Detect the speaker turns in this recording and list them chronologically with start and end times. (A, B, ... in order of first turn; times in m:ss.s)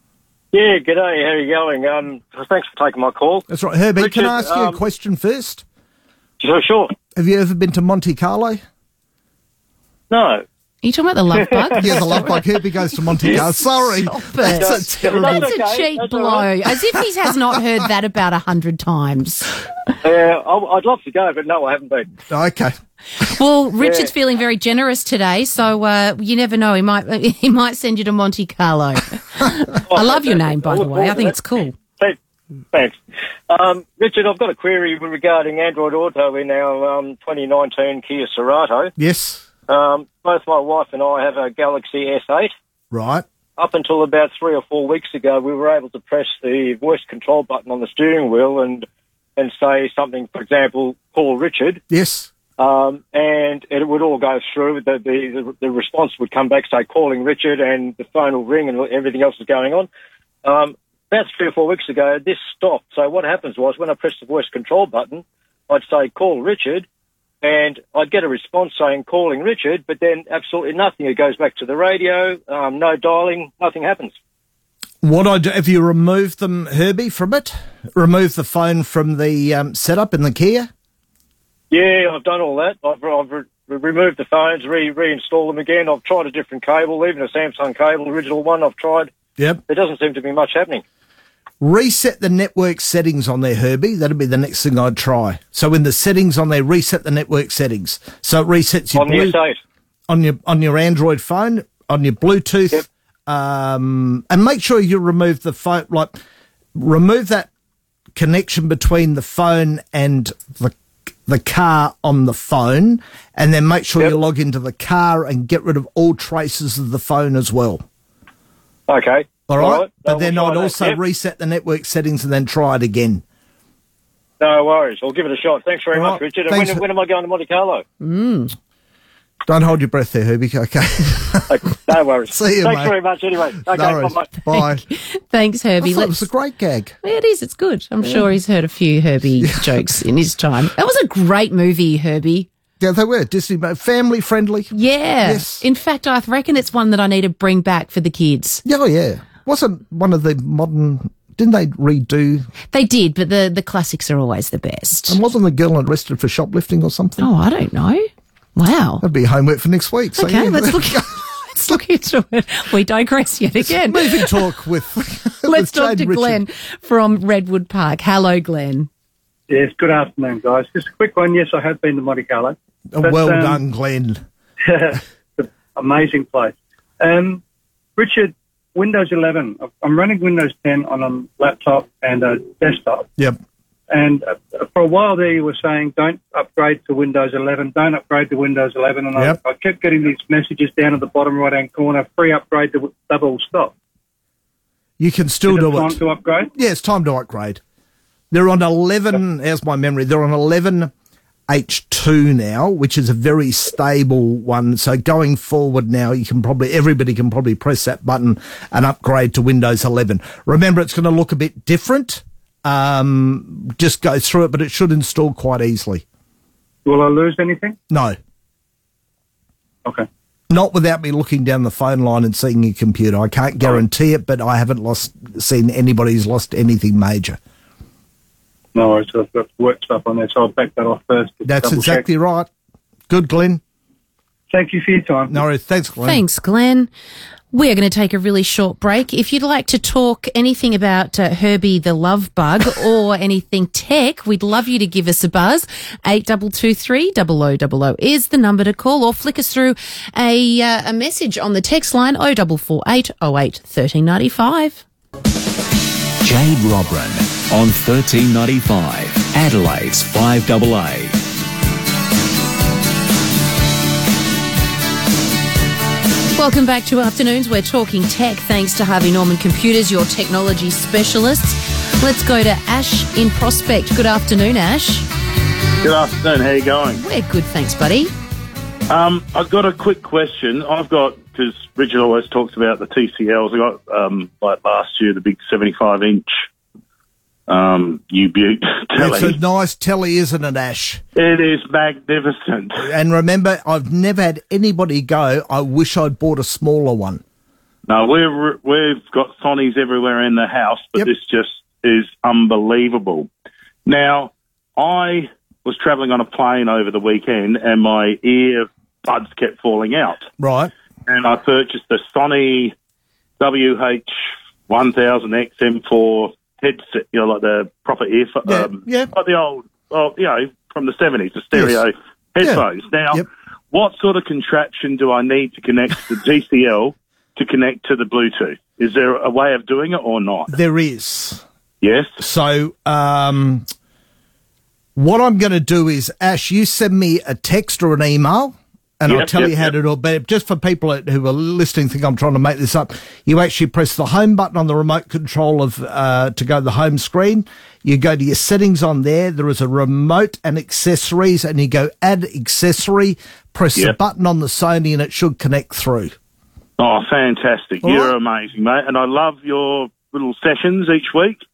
0:00.5-0:03.4 A
0:03.5-0:05.6 B
0:04.0-0:04.8 A
0:06.4-0:06.9 A
0:07.2-0:08.6 B
0:10.1-0:10.4 A
0:10.8-0:12.4 C
0:11.7-0:15.5 B
0:13.2-0:19.6 C
0:14.5-0:16.5 A
0:20.0-0:22.1 A
0:22.3-0:22.7 B
0:23.2-0:31.7 C
0:23.8-0:24.1 A
0:29.9-0:31.3 A
0:32.7-0:33.0 A
0:33.5-0:38.9 A
0:39.0-0:39.5 B
0:39.7-0:42.5 A
0:42.9-0:43.2 B
0:43.6-0:48.8 A
0:49.4-0:51.8 A
0:51.9-0:52.3 B
0:52.6-0:59.9 A
1:00.4-1:06.8 A
1:07.4-1:14.1 A
1:15.0-1:20.7 B
1:21.7-1:29.1 A
1:29.7-1:30.8 A
1:31.6-1:39.4 B
1:38.9-1:39.6 A
1:40.1-1:46.2 B
1:46.8-1:47.5 B
1:48.2-1:57.8 B
1:58.9-2:01.0 A
1:59.5-2:03.2 B
2:04.4-2:07.8 A
2:05.9-2:06.8 B
2:08.0-2:08.5 C
2:09.5-2:11.6 B
2:11.5-2:14.4 A
2:12.3-2:13.0 B
2:13.7-2:14.8 B
2:14.9-2:16.2 C
2:15.8-2:16.9 B
2:17.0-2:22.5 C
2:19.4-2:19.7 B
2:22.8-2:25.6 B
2:24.7-2:28.6 C
2:28.6-2:32.5 B
2:32.7-2:35.2 C
2:35.1-2:37.3 B
2:37.2-2:39.0 C
2:39.0-2:41.1 B
2:40.2-2:44.4 C
2:43.6-2:46.4 B
2:45.4-2:48.9 C
2:49.5-2:53.6 D
2:52.9-2:54.2 B
2:54.6-2:57.4 D
2:58.0-3:03.0 D
3:03.9-3:13.7 D
3:15.0-3:16.0 B
3:15.5-3:16.5 D
3:16.5-3:17.6 B
3:18.3-3:20.9 B
3:21.5-3:36.0 B
3:36.8-3:37.8 D
3:37.9-3:38.2 B
3:40.5-3:47.4 B
3:48.7-3:52.0 D
3:51.4-3:52.5 B
3:53.1-3:53.6 B
3:54.5-3:55.4 D
3:55.3-3:56.2 B
3:56.0-3:56.9 C
3:57.5-4:14.8 C
4:16.2-4:21.2 E
4:26.3-4:35.0 C
4:35.8-4:37.0 F
4:37.0-4:38.1 C
4:38.9-4:46.3 F
4:47.5-4:49.3 F
4:49.0-4:51.0 B
4:51.2-4:52.9 F
4:52.8-4:57.2 B
4:57.9-5:03.3 F
5:03.8-5:10.2 F
5:10.4-5:10.7 B
5:11.1-5:12.7 F
5:13.4-5:14.1 F
5:14.7-5:30.5 F
5:18.4-5:19.1 B
5:21.5-5:21.8 B
5:22.4-5:23.2 B
5:30.5-5:31.4 B
5:31.8-5:32.1 F
5:32.2-5:33.6 B
5:35.0-5:56.1 B
5:39.1-5:39.7 F
5:56.8-6:01.4 F
5:57.8-5:58.1 B